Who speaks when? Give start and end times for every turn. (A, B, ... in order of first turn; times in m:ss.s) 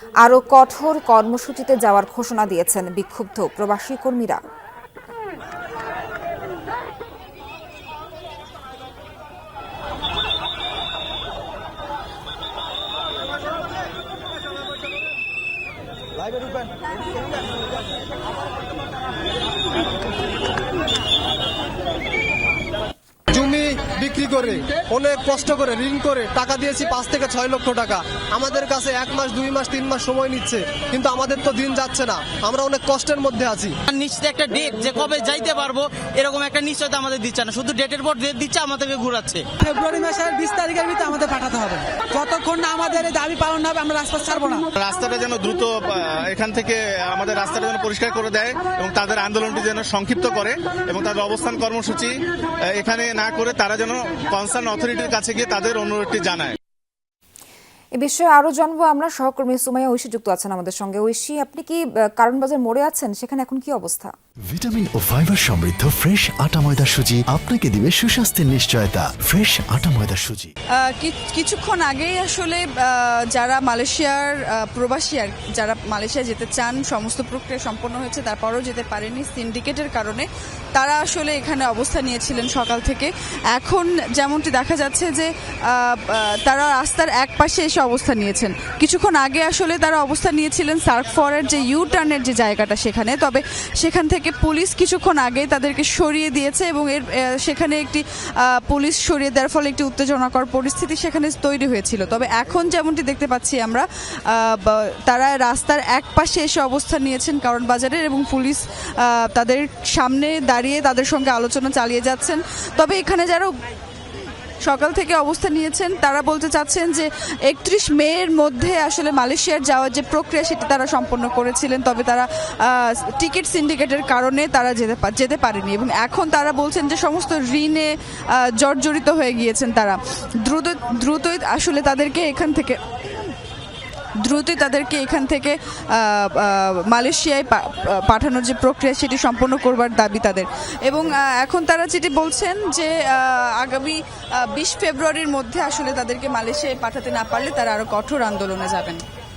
0:00.2-0:04.4 A
0:23.3-0:33.7 B
0:33.9-0:39.5 C
0:39.6-0:44.7 D
0:44.8-0:56.6 E
0:58.0-1:04.1 A
1:04.5-1:10.5 F
1:10.8-1:53.5 G
1:54.6-2:12.8 G
2:14.2-2:29.0 G